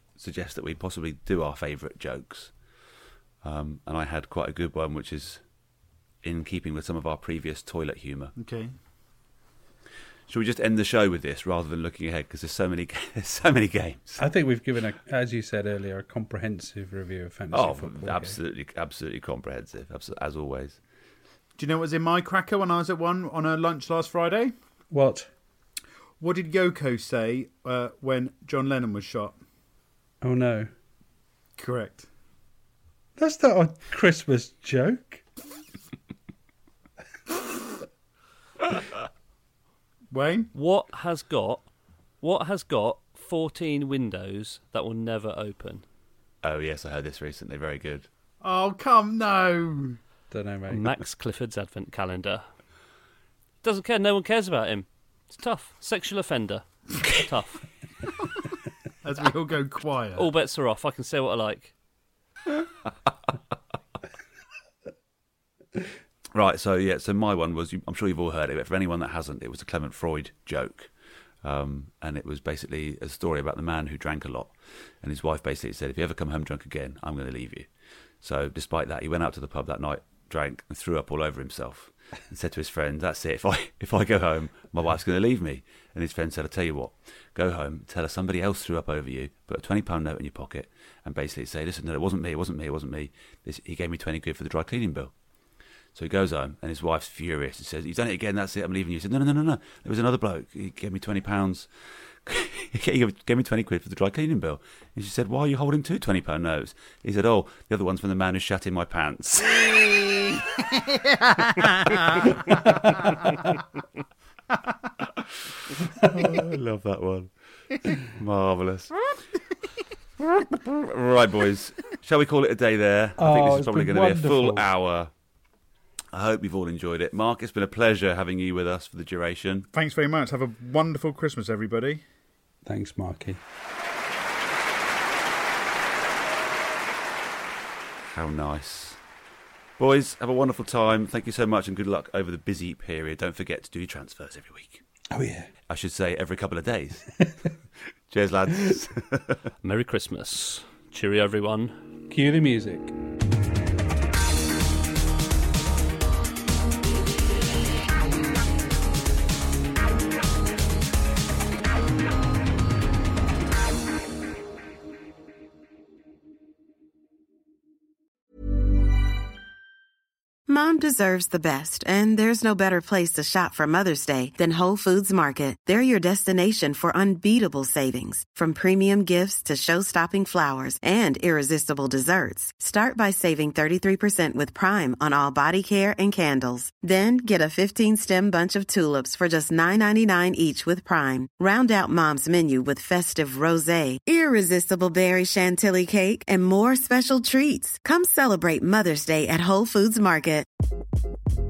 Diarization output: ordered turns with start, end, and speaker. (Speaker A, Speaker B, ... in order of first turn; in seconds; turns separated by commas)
Speaker A: 0.2-2.5, Speaker A: 3.4-5.4, Speaker A: 6.2-8.3, Speaker B: 8.4-8.7, Speaker A: 10.3-14.2, Speaker C: 14.2-18.4, Speaker A: 17.5-20.8, Speaker B: 21.6-24.5, Speaker C: 24.9-25.3, Speaker B: 26.2-29.4, Speaker C: 30.2-30.7, Speaker B: 31.6-32.1, Speaker C: 33.2-35.2, Speaker B: 40.1-40.5, Speaker D: 40.5-41.7, Speaker D: 42.2-45.9, Speaker A: 46.4-48.1, Speaker B: 48.4-50.0, Speaker C: 50.3-50.9, Speaker D: 50.7-52.4, Speaker D: 53.6-57.6, Speaker B: 59.0-60.3, Speaker D: 60.2-61.7, Speaker A: 66.3-70.9, Speaker A: 71.4-77.7, Speaker A: 78.2-95.1, Speaker A: 96.0-101.7, Speaker A: 102.2-110.4, Speaker B: 110.7-112.3, Speaker A: 111.6-112.7, Speaker B: 112.8-113.2, Speaker A: 116.0-117.3, Speaker A: 117.9-118.9, Speaker A: 120.2-125.1, Speaker C: 123.2-124.7, Speaker A: 126.1-129.7, Speaker B: 129.7-132.0, Speaker C: 132.7-133.4, Speaker A: 138.1-139.0, Speaker A: 139.8-144.8, Speaker C: 145.1-145.5, Speaker A: 145.7-147.2, Speaker A: 148.1-149.4, Speaker D: 149.6-151.8, Speaker C: 152.1-152.9, Speaker E: 170.5-200.5